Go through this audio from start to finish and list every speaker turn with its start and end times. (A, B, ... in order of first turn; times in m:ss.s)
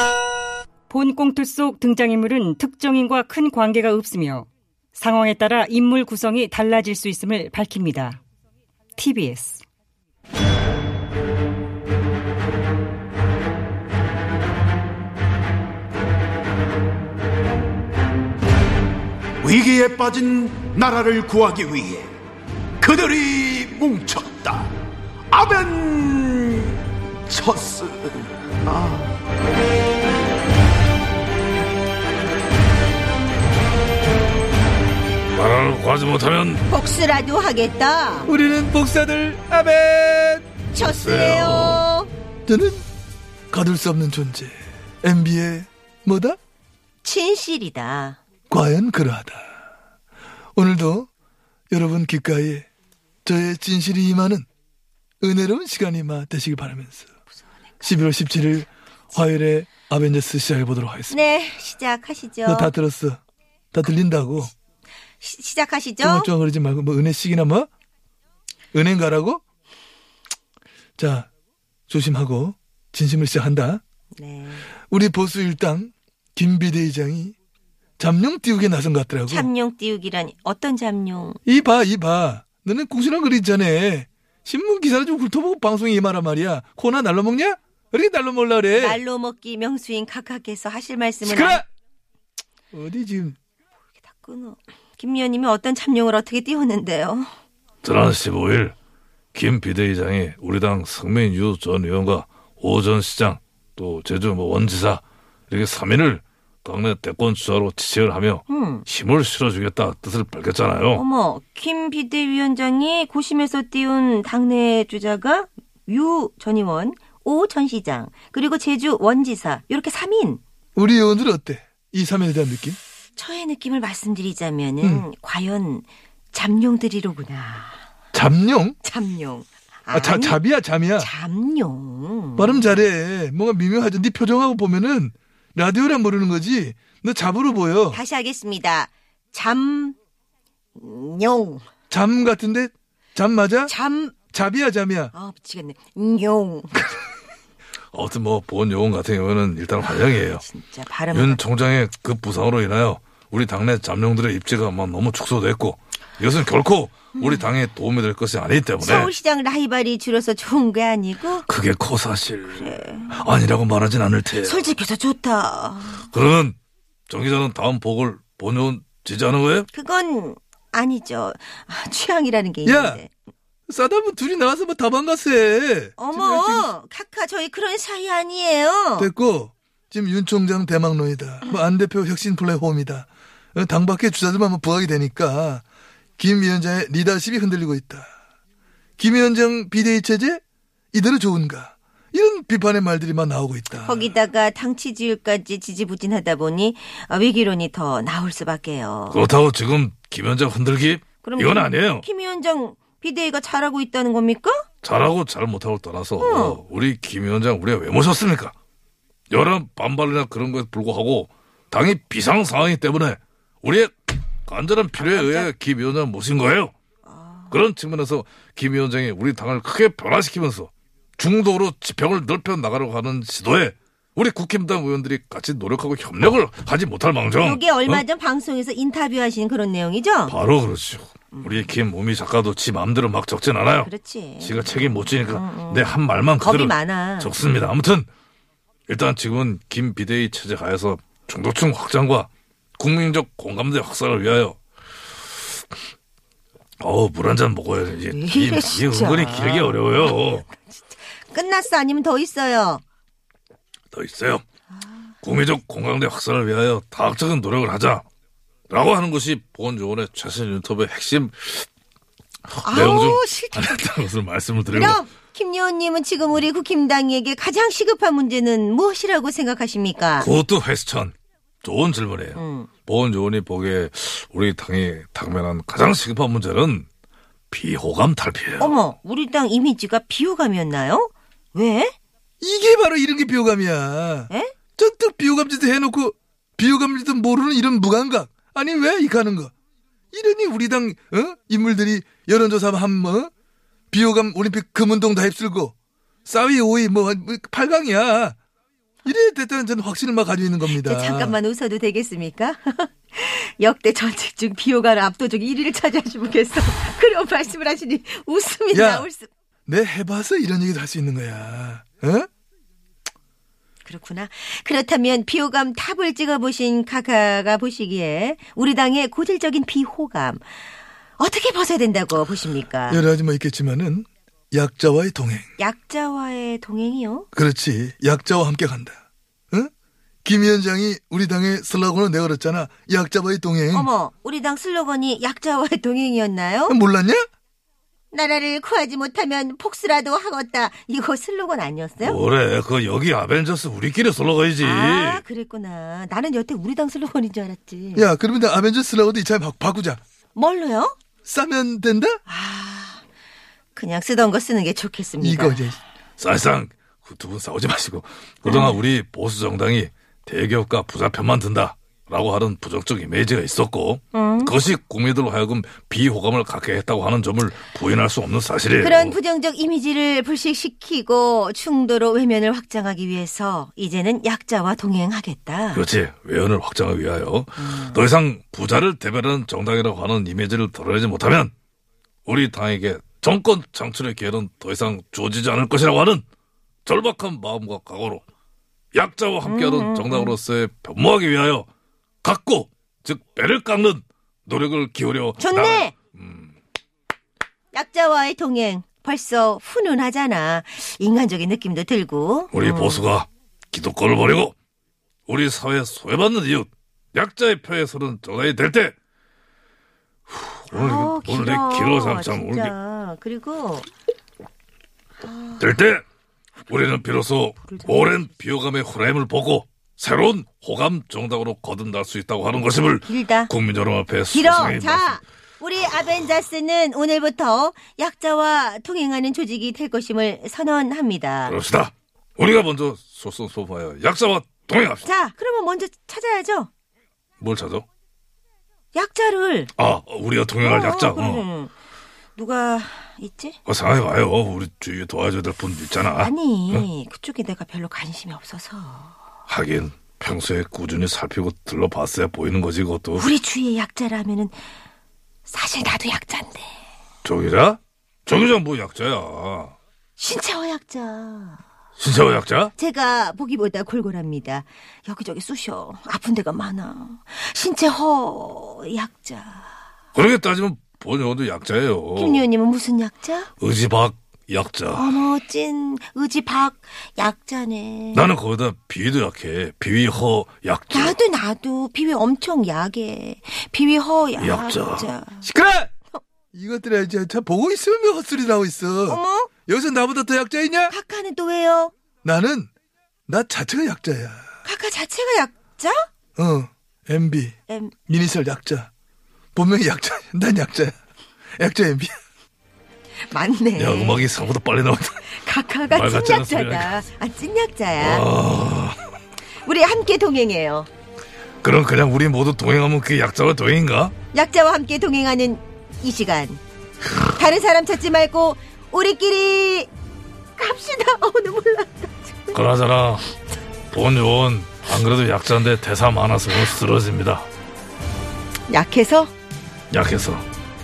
0:00.9-0:08.2 A
0:09.0-0:09.6 A
0:19.4-0:22.1 B
0:22.8-0:24.7 B
0:25.3-0:29.0 B
0:35.3-0:36.6 C
0:36.7-0:38.3 D
0:38.3-0:40.4 E
0:40.7-0:42.1 D
0:40.8-0:41.8 C
0:42.5-0:42.8 E
0:43.5-0:46.4 E
0:47.0-0:48.2 D
0:48.5-0:49.4 E
0:50.6-0:51.1 E
0:51.7-0:52.6 E
0:53.2-0:54.4 E
0:55.2-0:57.1 E
0:57.8-1:01.2 E
1:01.1-1:02.7 D
1:02.4-1:03.2 E
1:03.7-1:04.5 E
1:05.2-1:06.3 D
1:06.0-1:07.7 E
1:08.7-1:09.4 E
1:11.0-1:11.3 E
1:11.9-1:13.8 E
1:14.1-1:14.7 D
1:14.9-1:17.3 E
1:18.0-1:19.5 E
1:19.3-1:21.4 D
1:21.4-1:29.0 E
1:28.7-1:31.6 D
1:31.2-1:31.6 E
1:32.7-1:33.4 E
1:34.0-1:37.3 D
1:37.8-1:38.7 C
1:39.3-1:51.0 C
1:48.5-1:48.8 D
1:50.9-2:00.4 D
2:00.8-2:02.8 E
2:03.1-2:07.8 D
2:04.8-2:05.1 E
2:08.1-2:08.8 E
2:08.8-2:10.4 D
2:09.9-2:11.1 E
2:11.0-2:12.8 D
2:12.4-2:18.0 E
2:17.9-2:20.0 D
2:20.8-2:21.6 D
2:21.9-2:23.7 E
2:23.7-2:24.2 D
2:24.3-2:25.1 E
2:25.1-2:27.1 D
2:27.9-2:30.4 C
2:29.9-2:31.4 D
2:31.1-2:39.1 C
2:37.2-2:37.5 D
2:38.8-2:41.5 D
2:41.5-2:44.7 C
2:42.5-2:43.2 D
2:44.4-2:46.1 D
2:46.1-2:46.6 C
2:47.1-2:49.7 C
2:49.7-2:53.1 D
2:52.6-2:53.0 E
2:53.7-2:56.7 E
2:56.0-2:59.1 D
2:59.0-3:05.6 E
3:06.2-3:08.1 E
3:09.0-3:10.4 E
3:10.9-3:14.1 E
3:13.8-3:19.3 D
3:19.1-3:22.0 C
3:21.2-3:24.6 D
3:24.8-3:28.5 C
3:26.2-3:26.6 D
3:29.3-3:36.7 C
3:35.0-3:35.5 D
3:37.0-3:37.6 D
3:37.5-3:48.0 C
3:47.4-3:50.4 D
3:50.3-3:53.9 C
3:51.3-3:51.7 D
3:53.8-3:57.3 D
3:54.4-3:58.1 C
3:58.9-4:04.6 C
4:06.8-4:10.5 C
4:08.1-4:12.8 D
4:13.9-4:14.4 C
4:14.7-4:15.1 D
4:15.2-4:18.0 C
4:18.7-4:21.7 C
4:22.5-4:25.0 C
4:22.6-4:23.9 D
4:24.7-4:30.3 D
4:30.2-4:36.9 C
4:32.3-4:32.7 D
4:37.5-4:38.8 C
4:38.6-4:41.9 D
4:42.4-4:49.5 E
4:44.3-4:44.5 D
4:50.1-4:53.3 E
4:53.9-4:55.7 E
4:56.2-4:58.4 E
4:59.0-5:01.4 E
5:00.7-5:09.3 D
5:08.7-5:09.1 E
5:09.7-5:12.3 E
5:13.8-5:20.4 D
5:21.2-5:23.0 D
5:22.9-5:25.5 E
5:25.6-5:27.3 D
5:27.3-5:29.0 E
5:30.2-5:33.9 E
5:33.7-5:36.8 D
5:36.7-5:37.2 E
5:38.1-5:42.2 D
5:42.0-5:45.2 C
5:44.6-5:48.1 D
5:48.0-5:50.0 E
5:50.3-5:50.9 D
5:51.2-5:52.2 E
5:52.2-5:53.0 D
5:53.7-5:55.6 D
5:55.2-5:55.8 E
5:56.2-6:09.2 C
5:58.4-5:58.8 D
6:04.1-6:04.5 D
6:08.8-6:15.8 D
6:15.7-6:21.5 C
6:17.6-6:18.0 D
6:22.2-6:26.2 C
6:26.8-6:28.2 C
6:28.9-6:31.7 C
6:29.4-6:30.4 D
6:32.2-6:36.5 C
6:35.4-6:35.9 D
6:37.7-6:43.1 D
6:42.5-6:44.5 C
6:45.3-6:48.9 C
6:50.3-6:52.7 C
6:50.7-6:53.8 D
6:55.2-6:55.6 D
6:55.6-6:56.0 C
6:56.7-7:05.2 C
7:03.0-7:03.5 D
7:04.3-7:11.6 D
7:11.4-7:15.0 C
7:15.0-7:16.7 D
7:17.4-7:17.8 C
7:18.9-7:19.7 D
7:19.8-7:21.4 C
7:20.6-7:21.7 D
7:22.4-7:23.6 D
7:23.7-7:26.9 C
7:26.2-7:29.2 D
7:29.5-7:33.3 C
7:33.2-7:34.6 D
7:35.4-7:36.7 D
7:37.2-7:39.8 C
7:40.2-7:41.6 D
7:42.0-7:42.7 C
7:42.8-7:49.7 D
7:50.1-7:52.5 C
7:52.2-7:53.5 D
7:53.6-7:55.2 C
7:54.9-7:58.3 D
7:58.1-8:01.2 C
8:00.9-8:05.5 D
8:04.4-8:05.1 C
8:05.4-8:05.9 E
8:06.5-8:10.9 E
8:09.1-8:09.5 D
8:10.9-8:11.9 D
8:12.2-8:12.7 E
8:13.3-8:14.4 E
8:14.6-8:16.1 D
8:16.4-8:17.5 E
8:17.7-8:17.9 D
8:18.1-8:18.9 E
8:19.5-8:20.9 E
8:21.6-8:22.2 E
8:23.3-8:24.3 D
8:23.8-8:25.3 C
8:25.3-8:28.3 D
8:25.9-8:27.0 C
8:28.0-8:29.0 C
8:29.6-8:30.9 D
8:31.6-8:34.1 C
8:34.3-8:36.6 D
8:37.2-8:39.9 D
8:40.6-8:42.6 D
8:42.5-8:43.2 C
8:43.9-8:47.5 C
8:48.7-8:49.3 D
8:49.9-8:50.4 C